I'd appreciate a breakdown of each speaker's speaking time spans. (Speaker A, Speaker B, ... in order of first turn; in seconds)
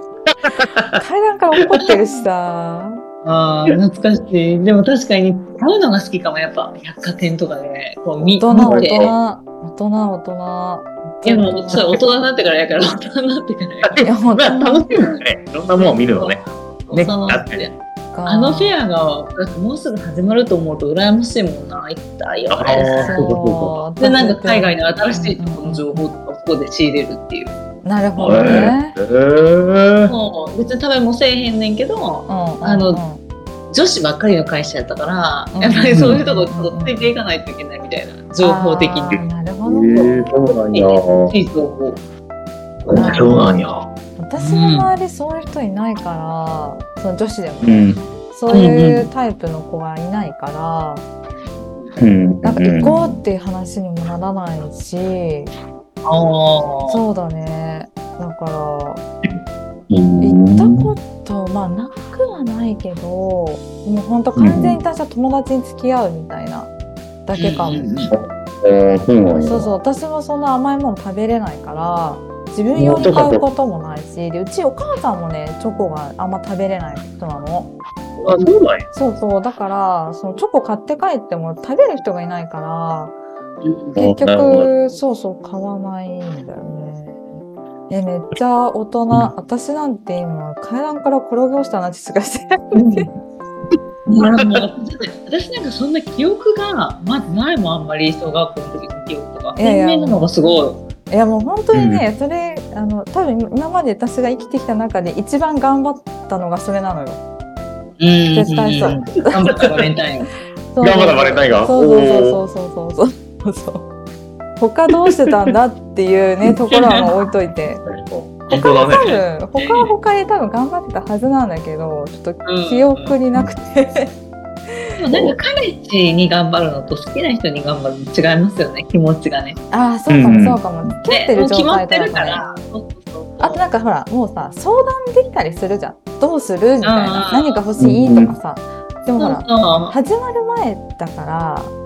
Speaker A: 0.5-1.0, 8.6-9.2, 13.8-17.7, 22.5-23.8, 28.2-30.1, 35.9-36.2, 39.6-41.3, 42.9-43.9, 47.6-48.0, 52.0-53.2, 59.9-60.9, 64.3-64.8, 68.1-69.7, 72.7-73.4, 78.2-78.8, 84.0-84.7, 101.7-102.0, 110.8-112.4, 117.9-119.2, 130.1-130.7, 137.8-138.3
Speaker B: 0.9-3.0, 8.2-11.8, 14.0-15.0, 18.1-18.7, 22.9-26.1, 27.8-28.9, 32.3-33.2, 35.5-37.1, 38.4-40.2, 42.9-43.6, 44.2-51.0, 52.4-55.5, 56.9-59.0, 60.2-66.7, 67.3-67.9, 69.3-77.7, 78.9-83.1, 84.0-87.2, 87.9-93.0, 99.5-100.3, 101.1-107.2, 108.3-109.5, 110.7-113.8, 114.6-117.8, 118.5-124.1, 124.7-124.9, 129.7-132.4, 133.4-141.7
Speaker C: 3.2-9.1, 11.2-13.9, 15.8-23.3, 24.0-27.6, 28.3-28.7, 30.1-33.0, 33.7-39.2, 39.9-42.0, 43.0-43.4, 44.4-44.9, 48.5-49.1, 56.0-57.0, 67.3-68.1, 83.6-83.9, 92.7-93.1, 94.1-100.8, 108.0-110.3, 118.5-119.9, 122.4-123.2, 125.0-129.6, 131.1-133.7, 136.8-137.7, 139.2-140.0